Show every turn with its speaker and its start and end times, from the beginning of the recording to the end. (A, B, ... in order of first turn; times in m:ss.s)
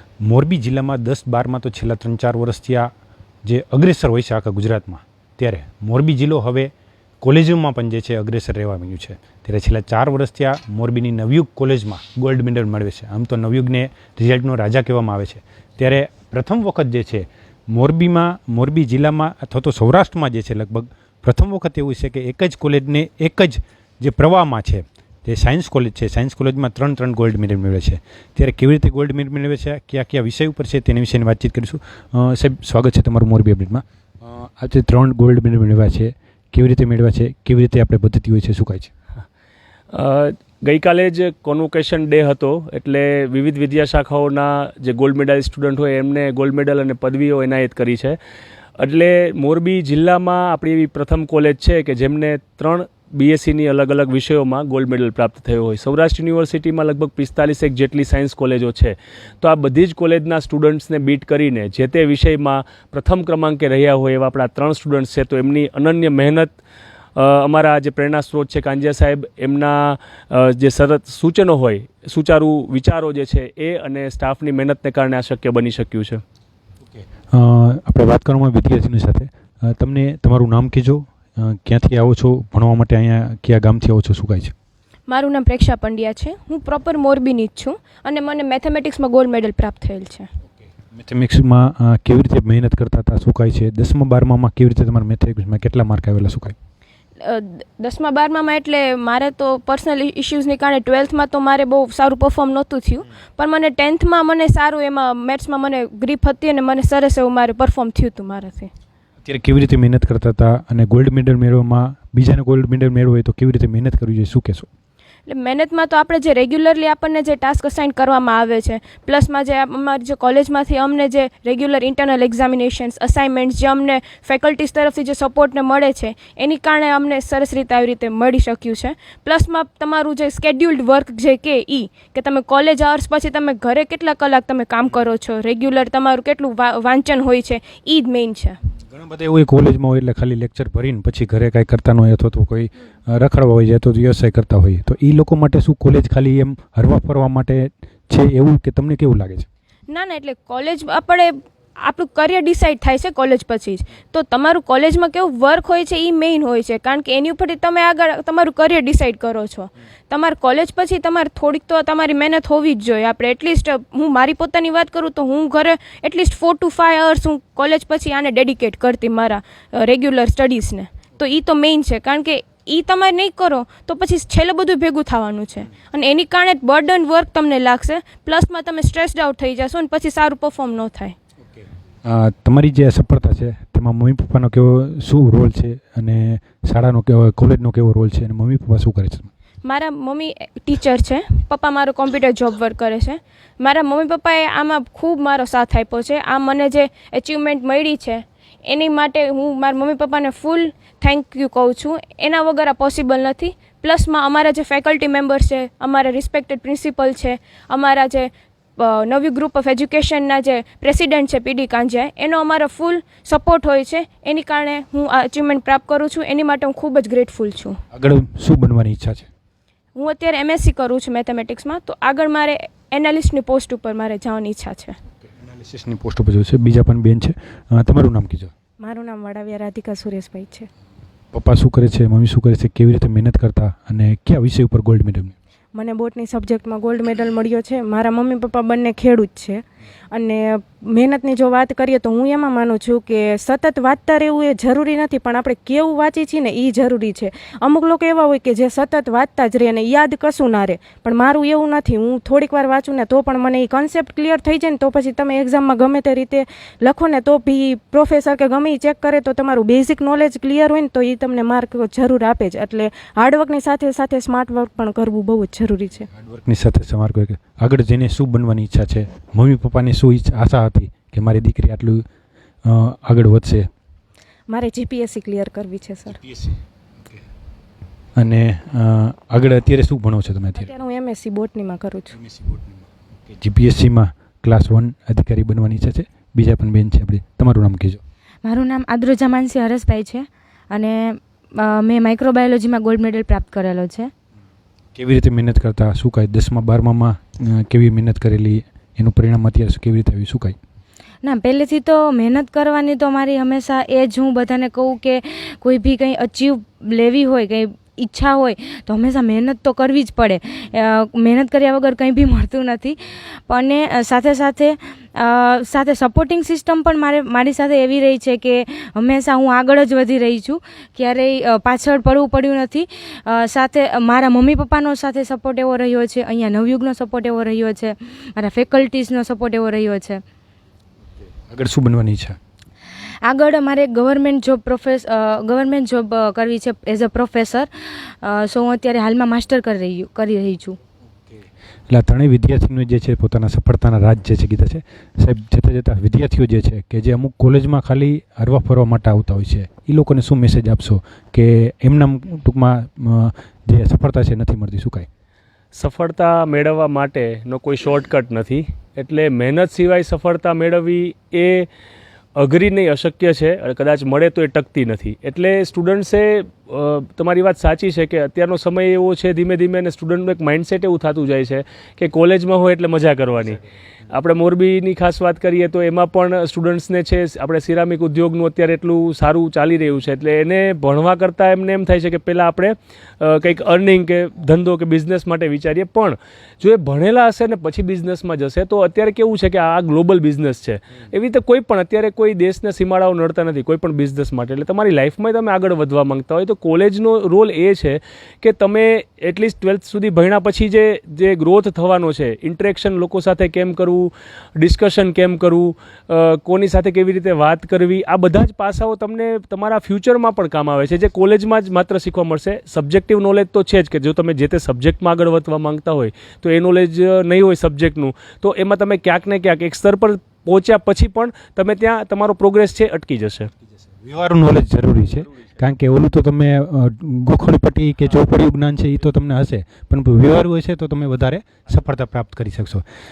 0:00.2-0:02.9 A
0:03.5-0:38.9 A
0:39.9-0:48.2 B
0:48.8-1:06.6 B
1:07.2-1:16.2 B
1:17.3-1:24.5 A
1:25.1-1:30.3 C
1:30.9-1:36.6 A
1:37.2-1:48.7 C
1:49.3-1:54.7 A
1:55.3-2:18.6 C
2:18.9-2:29.5 A
2:29.9-3:01.2 C
3:02.0-3:09.3 A
3:09.6-3:37.8 C
3:37.9-3:39.3 A
3:40.0-3:45.0 C
3:45.3-3:48.5 A
3:48.8-3:50.7 D
3:51.3-3:55.3 A
3:55.7-4:26.1 D
4:26.1-4:32.0 A
4:32.6-4:33.7 A
4:34.5-4:36.2 D
4:36.2-4:36.6 A
4:38.2-4:40.7 A
4:40.6-4:42.2 D
4:42.2-4:48.0 A
4:48.5-4:51.0 E
4:51.7-4:54.1 E
4:55.0-5:00.6 A
5:01.2-5:12.9 E
5:06.7-5:07.0 C
5:07.9-5:09.1 C
5:10.5-5:11.2 C
5:13.5-5:14.2 C
5:13.5-5:14.8 E
5:15.2-5:15.5 C
5:15.3-5:30.2 E
5:18.3-5:19.1 C
5:20.6-5:21.1 C
5:31.5-5:32.4 A
5:33.2-5:37.7 E
5:38.2-5:40.8 E
5:41.9-5:55.1 A
5:55.7-6:01.7 B
6:02.4-7:03.5 B
7:04.0-7:12.8 A